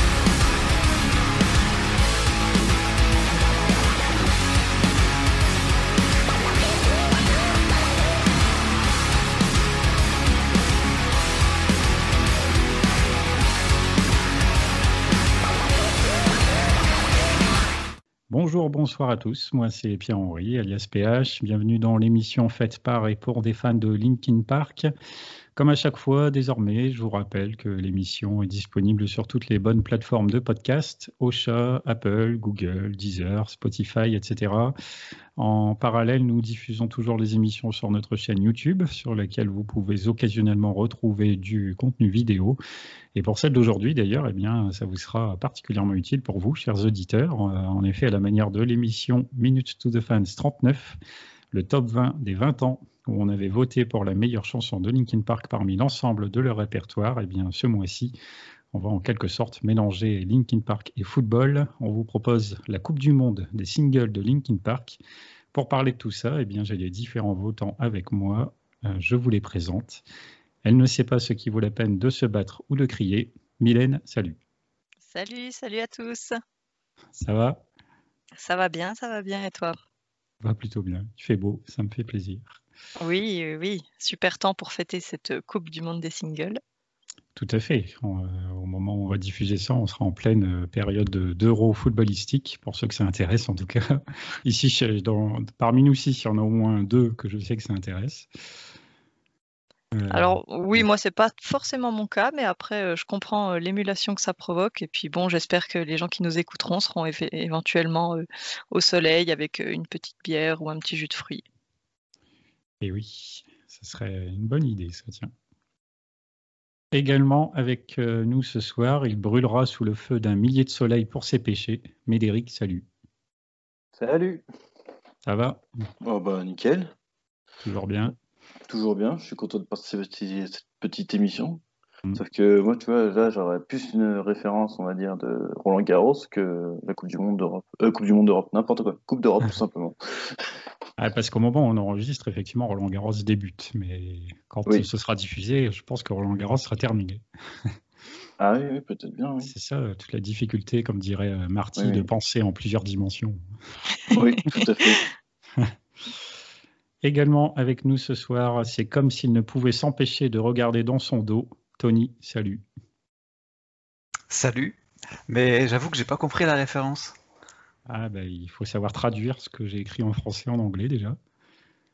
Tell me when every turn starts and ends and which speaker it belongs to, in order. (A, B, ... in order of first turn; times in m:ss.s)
0:18.3-0:24.9 A
0:25.6-0:34.7 A
0:35.4-0:42.6 A
0:43.1-0:51.0 A
0:51.5-0:58.1 A
0:58.7-1:05.0 A
1:05.5-1:10.0 A
1:10.6-1:14.4 A
1:15.1-1:16.4 B
1:17.2-1:17.6 A
1:18.4-1:19.8 B
1:20.4-1:22.6 A
1:23.0-1:26.6 B
1:27.3-1:38.3 A
1:39.9-1:40.8 A
1:40.1-1:51.4 B
1:52.8-1:55.3 A
1:56.9-2:02.8 A
2:04.0-2:04.4 C
2:05.2-2:05.6 A
2:06.0-2:06.9 C
2:07.6-2:08.2 A
2:08.7-2:11.6 C
2:12.2-2:20.5 C
2:21.0-2:27.2 A
2:28.4-2:29.5 C
2:29.4-2:33.4 A
2:31.8-2:32.0 C
2:34.1-2:35.0 B
2:34.1-2:35.0 C
2:37.0-2:42.6 A
2:44.3-2:44.8 D
2:45.3-2:47.1 D
2:47.9-2:51.2 A